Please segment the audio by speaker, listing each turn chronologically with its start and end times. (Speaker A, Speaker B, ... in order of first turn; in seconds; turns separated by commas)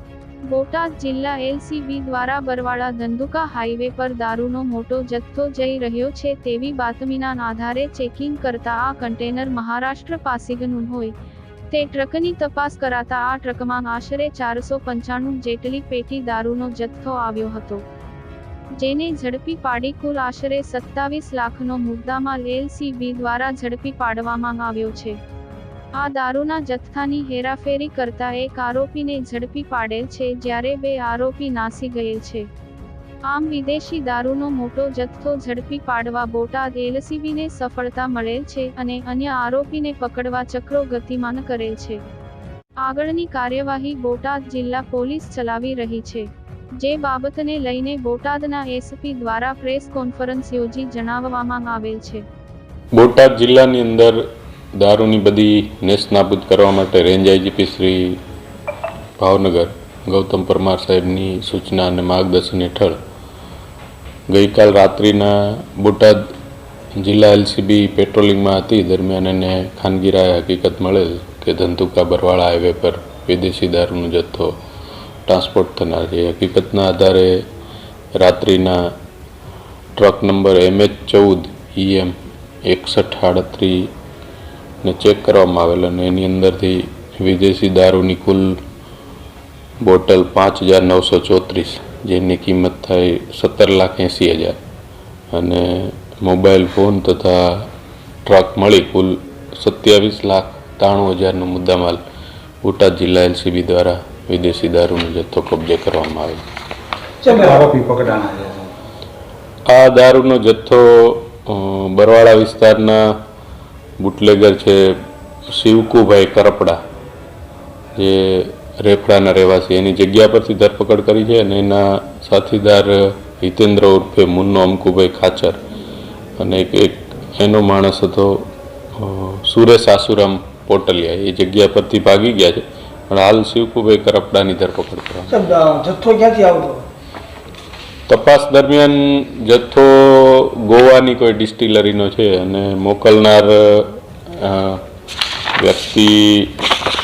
Speaker A: 0.5-11.1, Speaker A: 11.7-17.8, Speaker A: 18.8-25.1, Speaker A: 26.0-32.5, Speaker A: 33.3-42.0, Speaker A: 42.8-46.3, Speaker A: 46.8-52.2, Speaker B: 53.0-54.2, Speaker B: 54.8-58.2, Speaker B: 59.2-63.0, Speaker B: 64.3-66.3, Speaker B: 67.0-74.5, Speaker B: 75.3-77.4, Speaker B: 78.2-78.8, Speaker B: 80.0-82.1, Speaker B: 82.7-83.9, Speaker B: 84.8-88.6, Speaker B: 89.8-94.6, Speaker B: 95.3-97.7, Speaker B: 98.3-102.0, Speaker B: 102.6-106.4, Speaker C: 107.2-108.7, Speaker B: 109.7-113.0, Speaker B: 114.0-115.0, Speaker B: 115.5-116.8, Speaker B: 118.0-125.6, Speaker B: 126.4-135.4, Speaker C: 135.3-136.8, Speaker B: 138.1-144.8, Speaker B: 145.6-146.6